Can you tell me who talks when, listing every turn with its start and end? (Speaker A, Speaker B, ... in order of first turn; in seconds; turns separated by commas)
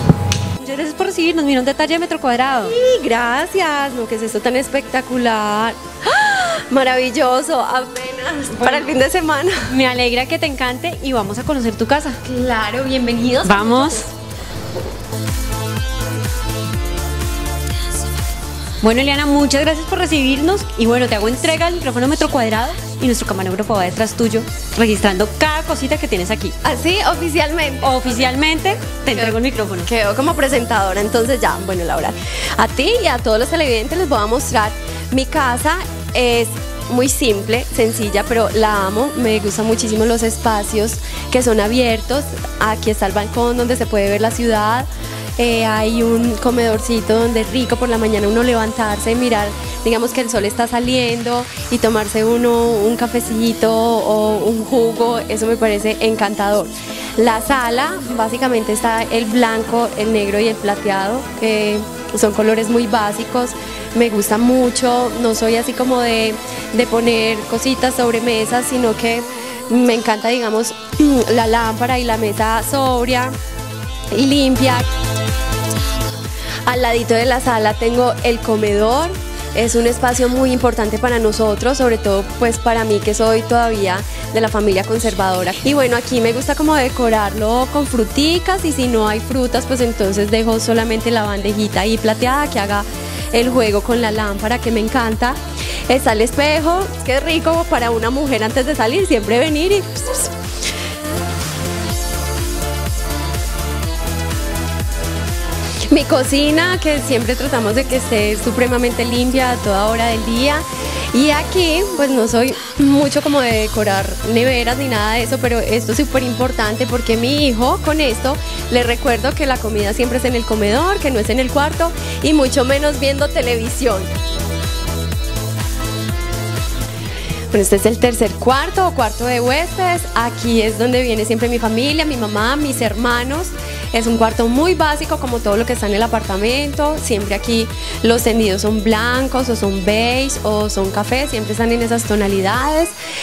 Speaker A: 0.6-2.7, Speaker B: 2.6-9.7, Speaker A: 8.6-8.9, Speaker A: 9.7-12.2, Speaker B: 12.2-14.1, Speaker A: 13.4-14.1, Speaker A: 18.8-26.6, Speaker B: 26.6-28.2, Speaker A: 27.8-29.9, Speaker B: 29.1-73.4, Speaker B: 74.1-74.9, Speaker B: 76.7-100.3, Speaker B: 105.9-124.1, Speaker B: 127.5-142.9